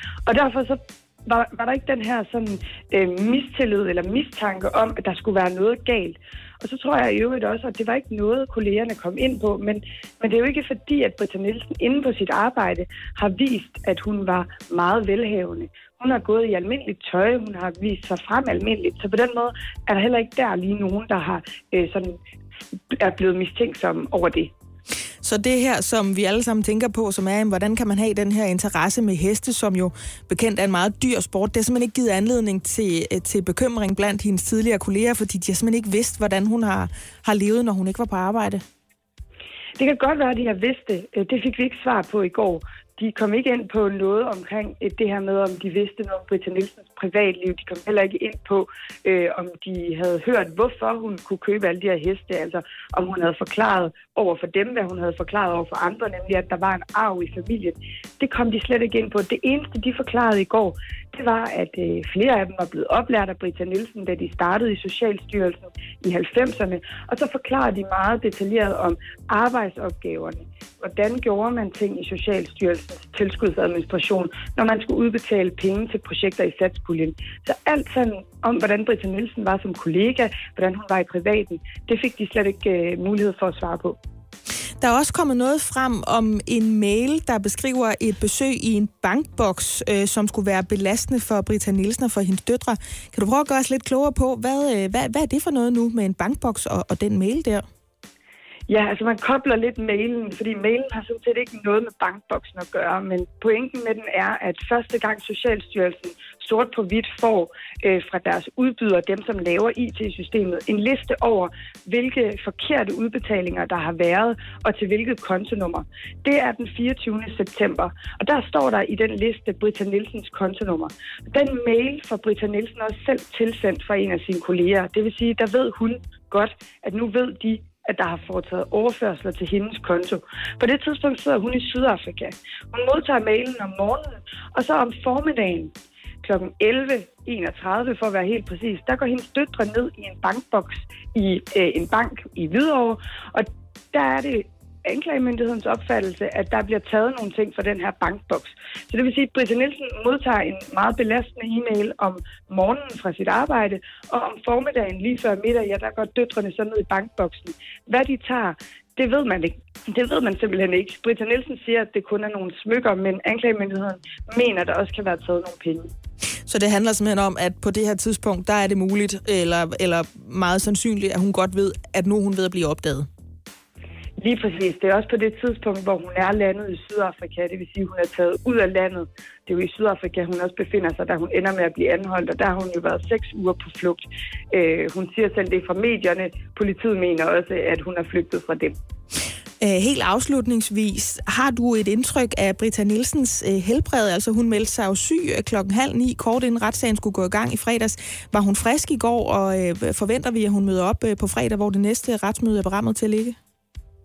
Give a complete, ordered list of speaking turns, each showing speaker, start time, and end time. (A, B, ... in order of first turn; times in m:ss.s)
0:00.2-0:22.2 A
0:22.9-0:24.5 A
0:25.2-0:38.6 B
0:39.8-1:24.0 A
1:24.8-1:37.6 B
1:38.7-2:45.9 A
2:46.5-2:53.1 B
2:54.2-3:08.8 A
3:09.6-3:23.4 B